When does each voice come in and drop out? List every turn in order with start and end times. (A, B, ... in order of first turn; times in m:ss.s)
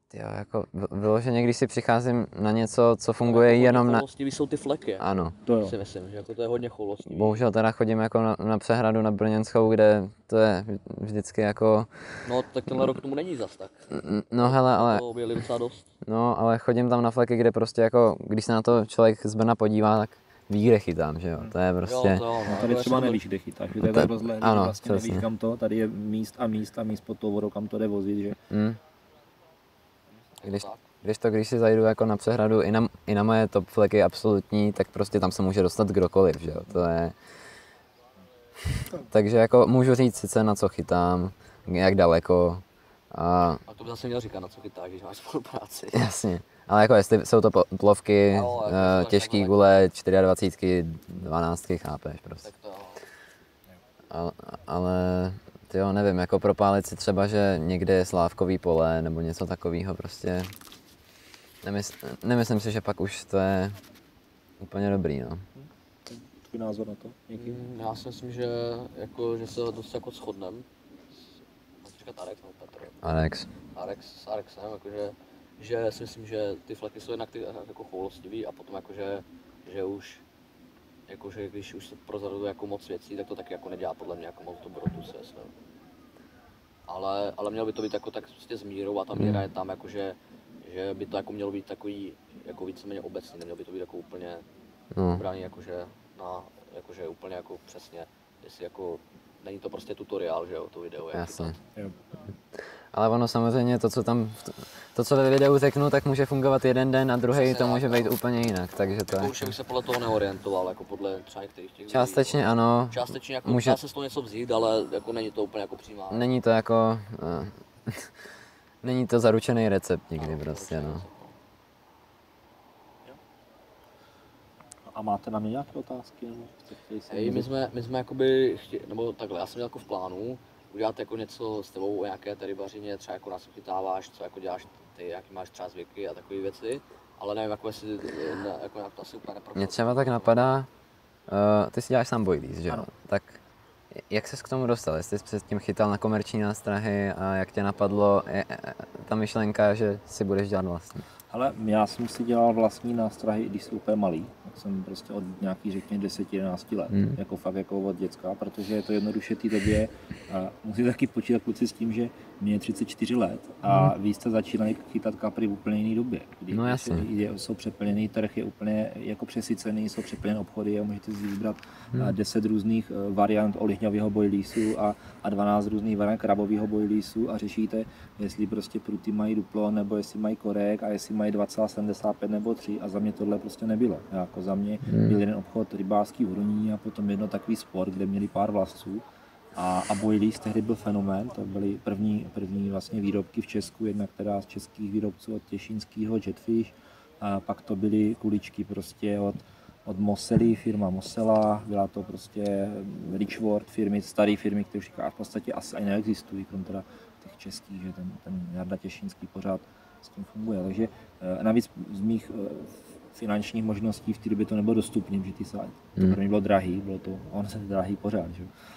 0:00.1-0:04.0 A
0:03.2-0:05.0 B
0:05.0-0:05.3 A
0:05.4-0:05.8 C
0:05.6-0:07.4 B
0:07.1-0:11.9 A
0:12.2-0:15.9 B
0:13.9-0:15.0 A
0:16.0-0:22.2 A
0:21.8-0:23.2 B
0:22.4-0:28.4 C
0:23.8-0:25.2 A
0:28.5-0:28.8 A
0:30.4-0:30.8 B
0:30.4-0:37.1 A
0:38.7-0:43.6 A
0:43.7-0:46.1 B
0:45.9-0:52.5 A
0:48.3-0:49.6 B
0:52.4-0:53.0 B
0:54.1-1:00.5 A
1:01.6-1:03.8 A
1:04.6-1:05.4 A
1:05.6-1:07.6 C
1:07.3-1:13.0 B
1:13.0-1:13.5 A
1:13.6-1:20.2 B
1:21.1-1:25.5 B
1:26.9-1:34.4 B
1:29.2-1:29.4 A
1:34.9-1:35.2 A
1:35.1-1:41.6 B
1:41.1-1:41.5 A
1:42.9-1:49.3 A
1:47.3-1:48.2 B
1:49.1-1:56.2 B
1:51.9-1:53.8 A
1:56.1-1:58.1 A
1:58.8-2:01.0 A
2:00.2-2:01.3 B
2:04.9-2:07.5 C
2:07.1-2:20.4 B
2:19.6-2:20.7 A
2:21.3-2:23.4 A
2:24.1-2:31.0 A
2:31.3-3:09.0 C
2:36.9-2:37.2 A
2:46.5-2:47.1 A
3:04.8-3:05.2 A
3:09.5-3:38.5 C